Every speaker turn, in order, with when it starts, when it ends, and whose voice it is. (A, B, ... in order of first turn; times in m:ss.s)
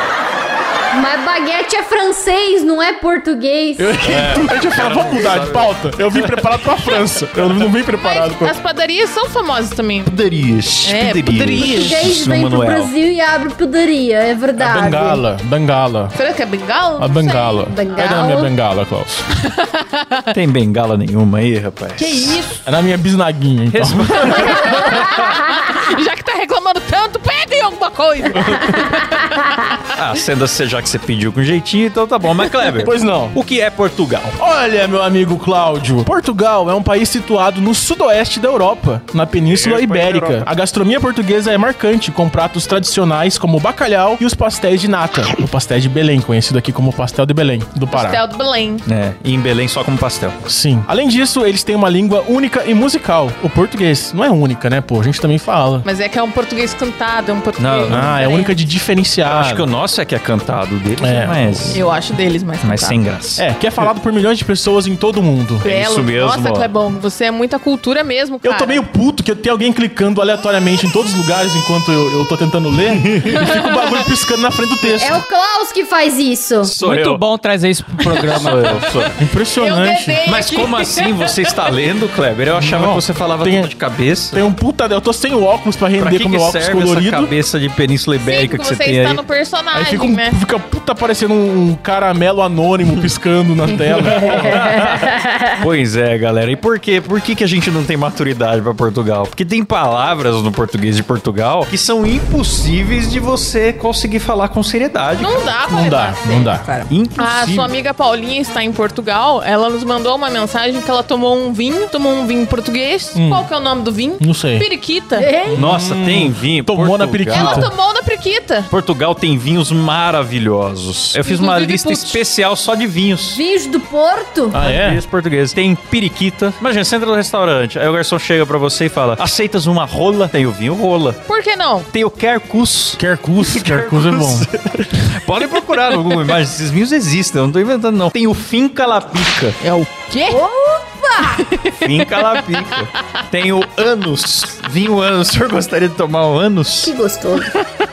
0:00.9-0:04.0 A
0:03.8-0:08.5 B
0:04.0-0:06.5 C
0:07.9-0:10.2 D
0:10.0-0:12.9 C
0:10.8-0:12.0 D
0:11.6-0:15.2 A
0:14.6-0:16.1 B
0:16.1-0:18.0 D
0:17.0-0:19.2 B
0:17.7-0:18.5 A
0:19.4-0:20.3 D
0:20.3-0:22.4 C
0:22.0-0:22.6 D
0:22.6-0:24.6 B
0:23.7-0:25.3 C
0:24.2-0:29.7 D
0:28.3-0:29.0 C
0:29.9-0:34.4 C
0:32.8-0:33.4 B
0:34.4-0:48.2 B
0:39.5-0:40.5 C
0:47.9-0:48.8 D
0:48.8-0:50.4 C
0:50.4-0:55.8 B
0:55.8-0:58.6 D
0:57.6-0:58.1 C
0:57.9-0:59.7 B
0:59.3-1:01.8 C
1:01.0-1:01.7 B
1:01.7-1:03.0 D
1:02.6-1:03.4 C
1:03.4-1:05.6 B
1:05.6-1:08.8 D
1:05.6-1:06.7 C
1:08.4-1:15.2 B
1:12.9-1:13.6 C
1:15.0-1:16.7 A
1:16.6-1:17.2 C
1:16.8-1:19.1 E
1:18.1-1:18.5 D
1:18.2-1:19.1 C
1:19.2-1:20.2 B
1:19.6-1:21.5 D
1:20.2-1:24.4 C
1:22.5-1:23.7 B
1:24.3-1:27.3 B
1:26.0-1:29.2 C
1:28.2-1:30.4 D
1:29.7-1:34.6 B
1:34.0-1:45.5 C
1:34.1-1:35.6 A
1:45.2-1:55.3 D
1:45.7-1:46.6 B
1:46.9-1:47.7 C
1:53.1-1:53.4 B
1:54.2-1:54.6 B
1:55.2-1:55.6 A
1:55.5-1:57.7 B
1:55.6-1:57.7 C
1:57.3-1:58.7 D
1:58.7-2:03.4 C
2:01.2-2:02.2 D
2:03.3-2:04.6 A
2:04.5-2:05.0 B
2:04.6-2:11.2 C
2:11.3-2:11.9 D
2:11.9-2:19.6 C
2:13.0-2:14.5 B
2:19.6-2:20.4 D
2:20.2-2:21.5 A
2:21.2-2:23.2 D
2:21.8-2:26.9 C
2:26.8-2:27.5 A